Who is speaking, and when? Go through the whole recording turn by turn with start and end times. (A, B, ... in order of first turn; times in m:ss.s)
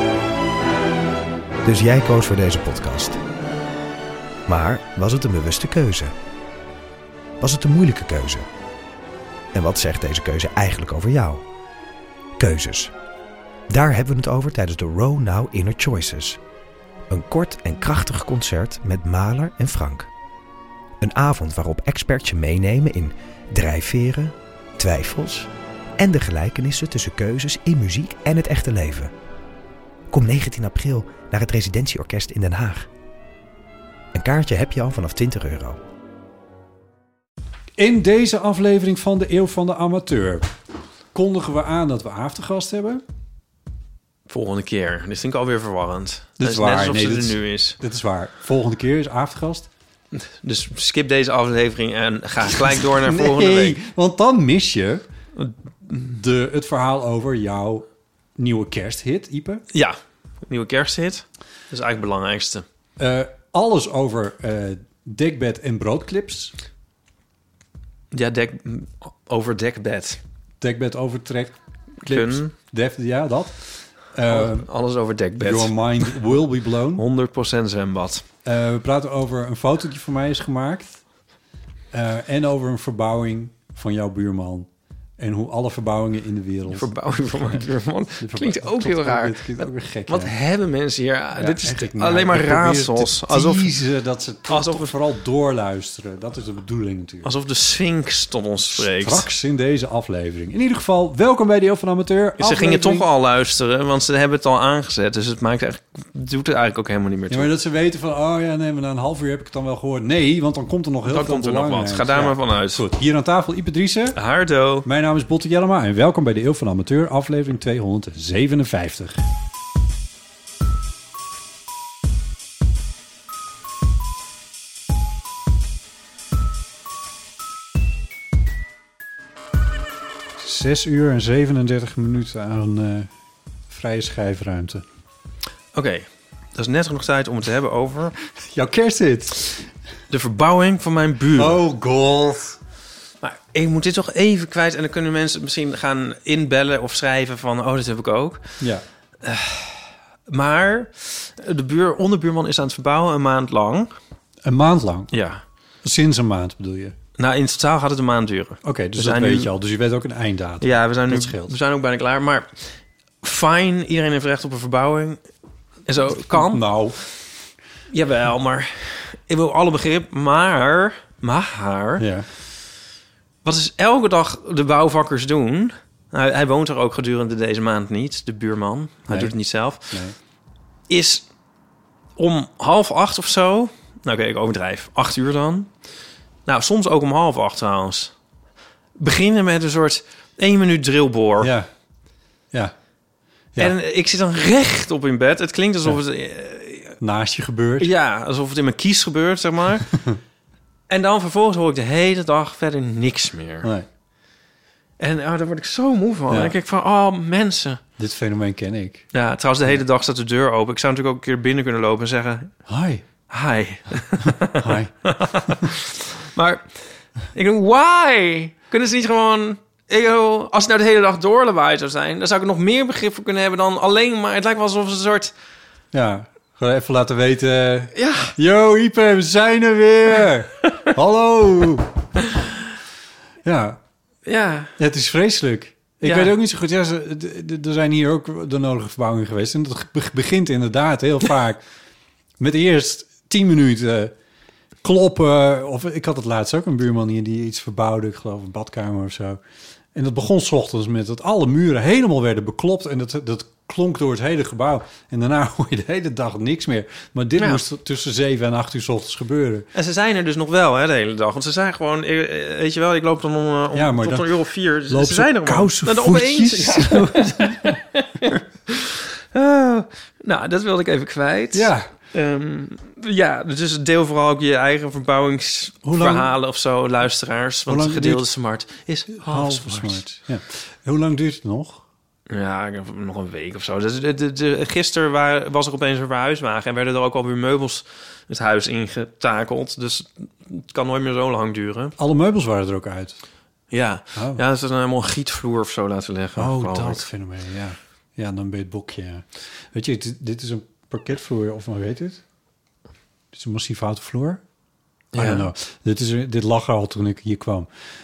0:01.6-0:03.2 A
0:04.5-0:06.1 A
0:07.4-0:08.4 A
0:09.5-0:11.4 A
0:12.4-0:12.9 A
0:13.7-0:16.4 A
0:17.1-0:20.1 A
0:21.0-0:29.1 A
0:30.1-0:32.9 A
0:34.1-0:35.8 A
0:37.8-0:40.5 B
0:41.1-0:43.0 B
0:44.3-0:47.8 C
0:46.4-0:49.7 B
0:50.1-0:53.8 C
0:53.0-0:55.0 B
0:55.9-0:59.6 B
0:59.7-1:02.6 C
1:03.0-1:06.5 B
1:08.1-1:10.2 C
1:10.6-1:11.5 B
1:12.0-1:14.7 B
1:12.0-1:12.5 C
1:14.3-1:16.4 C
1:15.4-1:17.0 B
1:16.9-1:18.2 C
1:18.4-1:21.0 B
1:21.9-1:26.9 B
1:26.7-1:33.8 C
1:28.2-1:30.3 B
1:31.3-1:37.3 B
1:34.5-1:34.9 C
1:37.2-1:39.3 C
1:38.7-1:43.1 B
1:42.4-1:47.5 C
1:47.3-1:54.2 B
1:51.1-1:52.8 C
1:54.1-1:54.8 C
1:54.8-1:59.2 B
2:10.4-2:13.1 B
2:13.7-2:14.8 B
2:15.7-2:18.1 C
2:18.4-2:19.7 B
2:20.1-2:21.6 C
2:21.3-2:22.6 B
2:23.2-2:28.6 C
2:29.2-2:33.9 C
2:34.4-2:35.1 B
2:35.1-2:35.4 C
2:35.8-2:37.0 B
2:37.2-2:39.5 C
2:38.6-2:41.6 B
2:40.6-2:45.2 C
2:45.9-2:46.7 C
2:46.2-2:47.1 B
2:47.9-2:52.1 C
2:52.0-2:52.3 B
2:53.4-3:00.0 C
2:59.1-2:59.3 B
2:59.9-3:00.2 B
3:00.9-3:01.3 C
3:02.2-3:05.7 C
3:06.4-3:08.1 C
3:09.0-3:11.5 C
3:11.4-3:11.7 B
3:13.6-3:17.0 C
3:17.0-3:17.9 B
3:17.8-3:19.9 C
3:20.9-3:23.7 C
3:25.0-3:27.8 C
3:26.3-3:26.6 B
3:28.0-3:29.1 B
3:29.1-3:32.5 C
3:32.7-3:33.0 B
3:33.3-3:45.3 C
3:34.5-3:34.9 B
3:45.9-3:51.9 B
3:47.9-3:48.4 C
3:53.4-3:53.8 B
3:54.2-3:54.7 C
3:54.8-4:01.6 B
3:56.0-3:56.3 C
4:02.4-4:04.1 B
4:04.8-4:09.4 B
4:09.9-4:19.7 B
4:17.4-4:17.6 C
4:19.7-4:40.0 C
4:23.7-4:24.4 B
4:24.9-4:27.7 B
4:31.5-4:31.9 B
4:35.8-4:36.3 B
4:37.7-4:38.2 B
4:39.1-4:41.8 B
4:42.3-4:51.9 C
4:52.0-4:53.2 B
4:53.7-4:57.0 C
4:54.1-4:54.4 B
4:56.4-5:02.2 B
5:03.3-5:04.4 B
5:05.1-5:05.5 C
5:05.1-5:07.7 B